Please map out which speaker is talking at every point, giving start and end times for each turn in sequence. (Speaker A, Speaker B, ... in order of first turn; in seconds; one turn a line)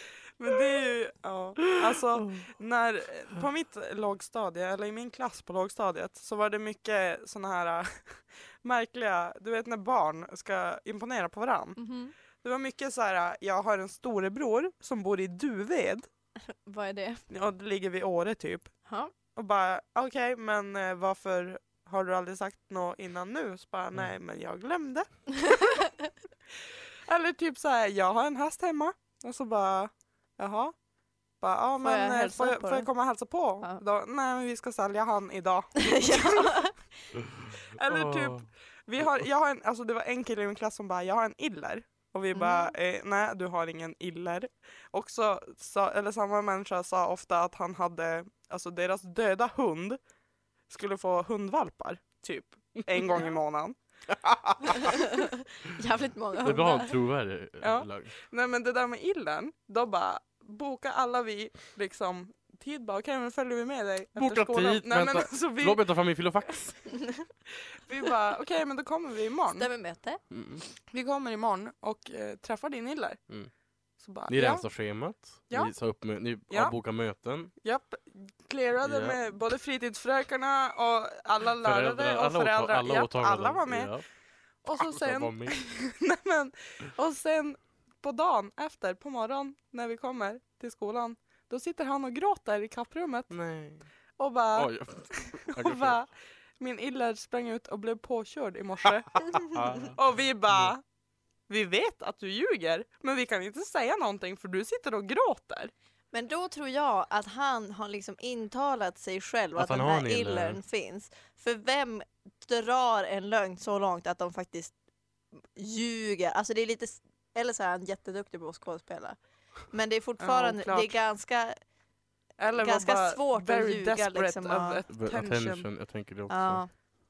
Speaker A: 0.4-11.8
Speaker B: 1.6-2.5
Speaker C: 11.8-12.1
Speaker A: 12.4-16.1
Speaker C: 16.5-17.2
Speaker A: 17.3-18.7
Speaker C: 18.9-19.1
Speaker A: 19.3-25.1
Speaker C: 25.4-25.9
Speaker A: 27.1-30.7
Speaker A: 31.4-36.6
Speaker C: 31.8-32.9
Speaker C: 35.8-36.8
Speaker B: 37.1-38.5
Speaker A: 37.7-50.0
Speaker C: 42.3-42.7
Speaker A: 50.7-53.8
Speaker C: 54.7-56.9
Speaker B: 56.4-58.1
Speaker A: 57.6-66.2
Speaker B: 64.2-66.8
Speaker C: 66.9-67.2
Speaker A: 67.9-69.7
Speaker C: 69.6-70.2
Speaker B: 70.3-70.6
Speaker A: 70.9-73.2
Speaker A: 74.0-75.7
Speaker B: 74.3-77.5
Speaker A: 76.5-76.8
Speaker A: 77.6-83.9
Speaker B: 78.8-79.2
Speaker B: 81.6-84.0
Speaker A: 84.6-93.3
Speaker B: 84.7-85.6
Speaker B: 93.3-93.9
Speaker A: 94.2-100.8
Speaker B: 94.5-96.0
Speaker B: 99.4-100.0
Speaker A: 101.5-105.7
Speaker C: 106.1-114.7
Speaker B: 109.6-110.6
Speaker C: 115.5-119.2
Speaker C: 119.7-121.6
Speaker A: 120.2-120.9
Speaker A: 122.4-125.7
Speaker C: 122.6-124.8
Speaker B: 124.9-126.6
Speaker C: 126.3-126.7